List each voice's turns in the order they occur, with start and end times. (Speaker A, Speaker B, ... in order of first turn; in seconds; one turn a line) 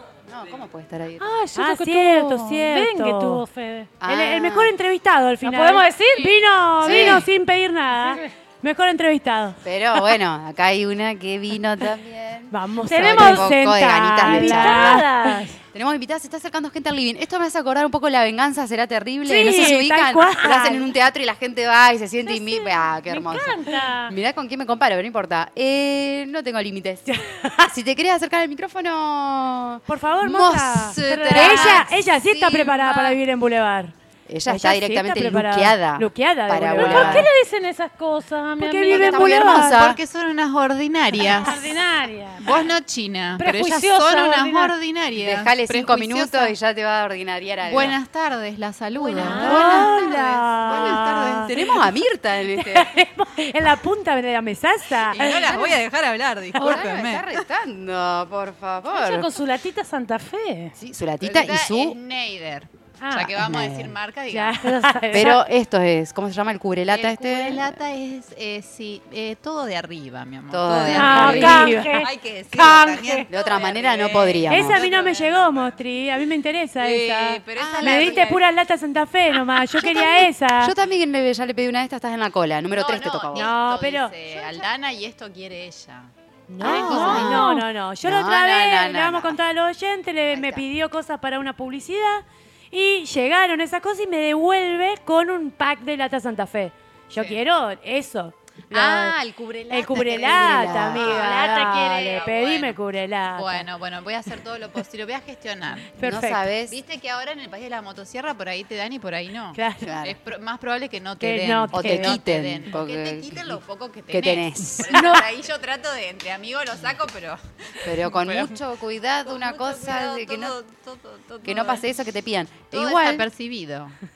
Speaker A: 0.3-1.3
Speaker B: 1.2-3.9
Speaker C: 1.5-3.4
Speaker A: 4.0-4.7
Speaker C: 4.0-9.6
Speaker B: 5.4-7.2
Speaker A: 6.8-7.3
Speaker B: 8.0-8.3
Speaker A: 9.6-15.1
Speaker C: 12.5-15.4
Speaker B: 12.9-13.5
Speaker B: 14.2-15.6
Speaker A: 15.7-33.0
Speaker C: 19.2-20.9
Speaker B: 22.2-24.1
Speaker C: 27.1-27.7
Speaker C: 29.9-33.9
Speaker B: 31.1-31.9
Speaker A: 34.3-37.3
Speaker C: 34.5-37.3
Speaker B: 36.8-39.6
Speaker C: 38.6-39.7
Speaker A: 38.9-40.0
Speaker D: 39.3-41.8
Speaker B: 41.3-42.5
Speaker D: 42.4-46.5
Speaker B: 43.4-44.7
Speaker A: 45.1-48.0
Speaker D: 47.6-51.8
Speaker A: 49.0-52.9
Speaker B: 49.2-49.8
Speaker C: 49.2-51.5
Speaker C: 52.5-55.6
Speaker D: 55.0-57.4
Speaker A: 55.5-55.8
Speaker A: 56.5-59.3
Speaker B: 58.9-60.7
Speaker A: 60.8-62.0
Speaker D: 61.2-64.6
Speaker B: 63.0-63.3
Speaker A: 63.4-63.9
Speaker C: 64.3-65.4
Speaker B: 64.6-65.4
Speaker A: 65.1-67.7
Speaker D: 66.9-75.8
Speaker A: 70.5-71.7
Speaker C: 70.9-72.0
Speaker B: 70.9-73.3
Speaker A: 73.3-74.8
Speaker C: 74.5-80.7
Speaker D: 76.8-78.4
Speaker A: 77.6-78.3
Speaker A: 79.8-83.5
Speaker D: 82.7-86.1
Speaker C: 83.3-84.1
Speaker C: 86.5-99.2
Speaker A: 86.6-87.4
Speaker D: 86.6-87.4
Speaker B: 86.7-87.6
Speaker A: 88.0-89.4
Speaker A: 90.3-90.7
Speaker D: 98.7-102.8
Speaker C: 99.7-103.7
Speaker A: 100.0-101.9
Speaker D: 103.3-105.9
Speaker C: 105.9-106.5
Speaker A: 106.0-106.8
Speaker D: 106.7-118.6
Speaker C: 109.5-109.9
Speaker A: 109.8-110.2
Speaker C: 111.2-112.2
Speaker A: 111.7-113.6
Speaker A: 114.1-115.2
Speaker C: 114.9-115.2
Speaker A: 117.8-120.5
Speaker D: 119.2-121.8
Speaker A: 121.4-123.2
Speaker D: 122.7-124.0